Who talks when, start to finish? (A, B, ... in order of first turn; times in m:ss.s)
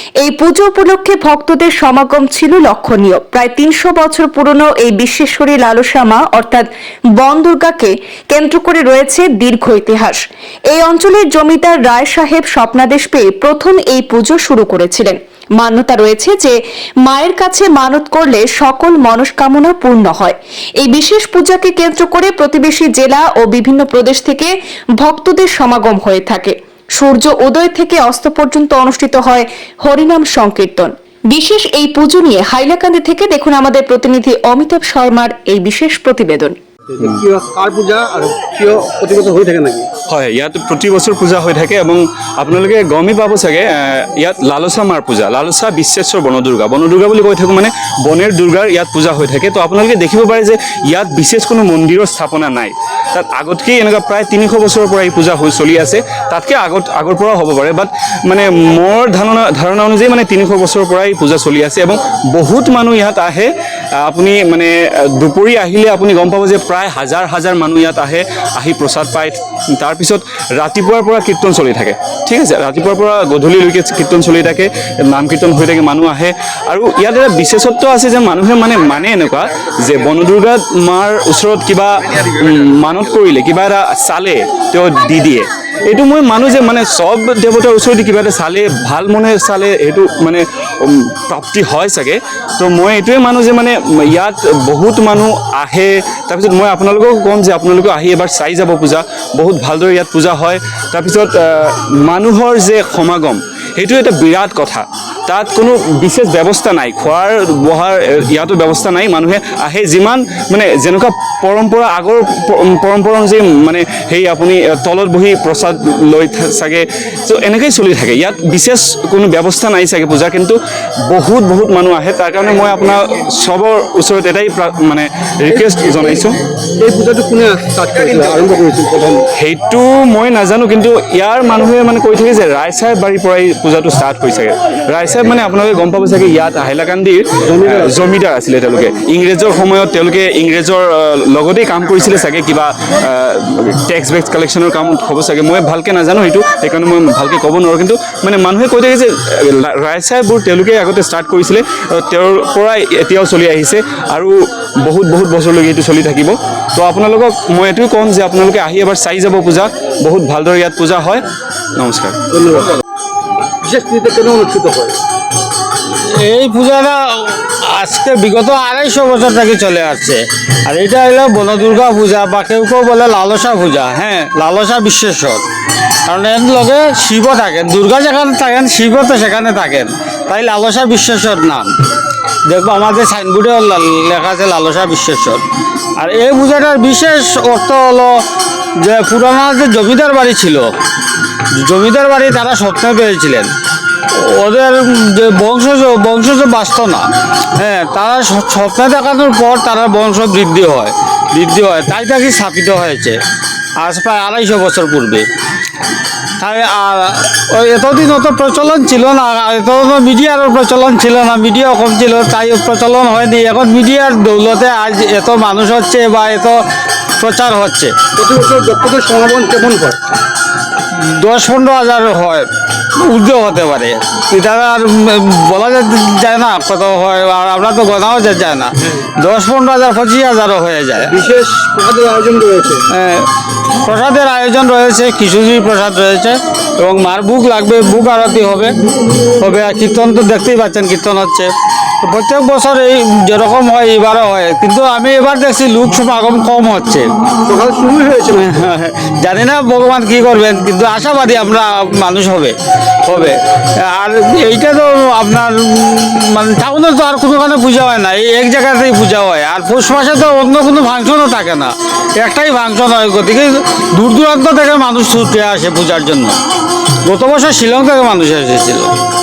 0:00.2-0:36.6 A
0:36.9-0:39.9 B
0:40.1-2:06.4 C
2:06.8-2:09.2 B
2:09.3-2:41.2 C
2:17.4-2:17.9 B
2:41.8-2:42.2 C
2:42.3-2:42.8 B
2:43.6-2:45.0 B
2:46.0-2:55.4 D
2:56.0-3:01.8 D
3:02.4-3:05.4 D
3:06.0-3:08.2 D
3:08.8-3:10.8 D
3:11.5-3:13.5 D
3:14.1-3:23.2 D
3:23.8-3:25.3 D
3:26.4-3:36.6 D
3:37.2-3:38.0 D
3:38.1-3:40.0 B
3:40.9-3:51.1 D
3:51.0-3:52.8 B
3:52.9-3:53.3 D
3:53.8-3:58.7 D
3:59.4-4:07.1 D
4:07.4-4:08.5 B
4:08.3-4:26.4 D
4:27.0-4:28.9 D